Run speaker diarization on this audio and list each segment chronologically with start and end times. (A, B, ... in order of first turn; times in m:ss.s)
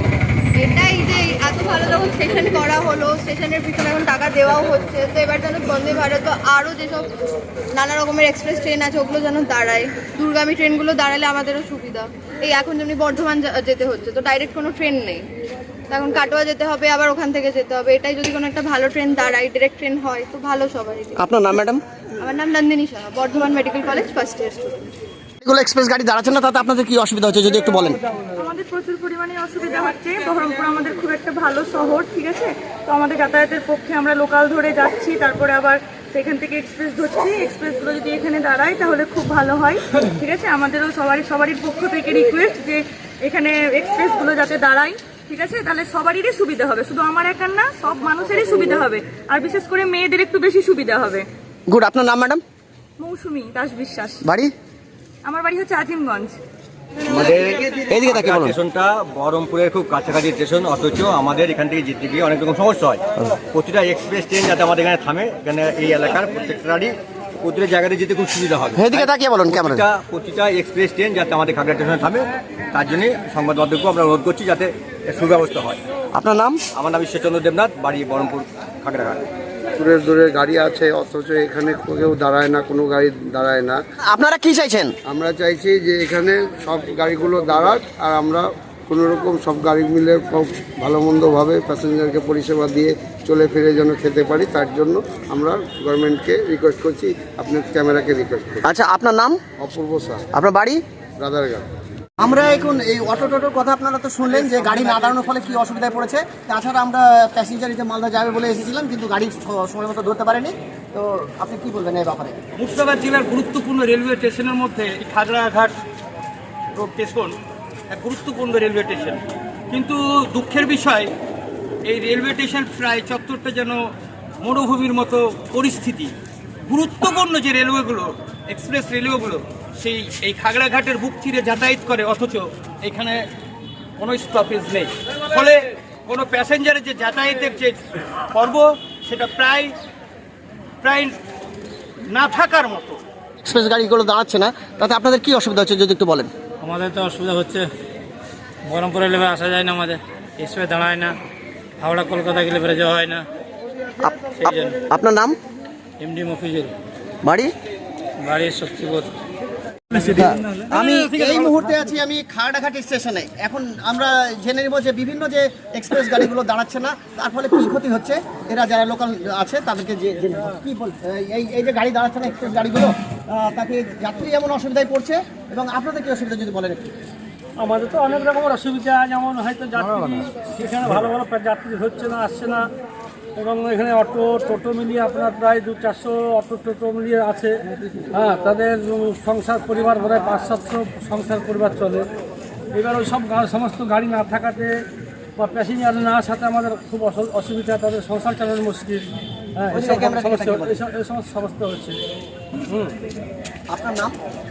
0:00.6-0:07.1 A
0:07.8-0:15.2 A
0:15.9-0:21.2 A
0:21.2-0:21.8 B
0:22.2-0:24.8 A
0:25.4-0:28.0 B
0:28.4-0:51.3 C
0:51.7-0:52.4 B
0:53.0-0:54.2 C
0:54.2-0:54.5 B
0:55.2-0:56.4 C
0:57.1-1:15.8 D
0:57.9-0:58.6 B
1:08.7-1:09.9 B
1:16.1-1:16.6 B
1:16.8-1:19.3 D
1:19.8-1:23.8 E
1:24.0-1:25.0 B
1:25.1-1:38.7 E
1:38.6-1:39.4 B
1:39.6-1:40.3 E
1:40.3-1:40.8 B
1:41.2-1:41.7 E
1:42.2-1:52.4 B
1:44.4-1:45.0 F
1:52.6-1:55.7 F
1:56.7-1:57.4 F
1:57.9-1:59.2 F
1:59.7-2:01.1 F
2:01.9-2:03.8 F
2:04.4-2:06.1 F
2:06.7-2:13.2 F
2:14.0-2:17.8 F
2:18.3-2:19.7 F
2:20.8-2:21.2 F
2:22.1-2:23.0 F
2:23.4-2:26.3 B
2:26.6-2:27.7 G
2:28.7-2:31.2 G
2:31.8-2:33.2 G
2:34.0-2:35.4 B
2:34.4-2:34.7 G
2:36.0-2:36.7 G
2:37.2-2:37.5 B
2:38.2-2:39.1 G
2:40.0-2:57.0 B
2:40.8-2:41.3 G
2:57.6-3:02.7 H
3:03.4-3:12.1 H
3:12.7-3:14.8 H
3:15.4-3:22.0 H
3:19.7-3:20.8 B
3:23.7-3:24.2 B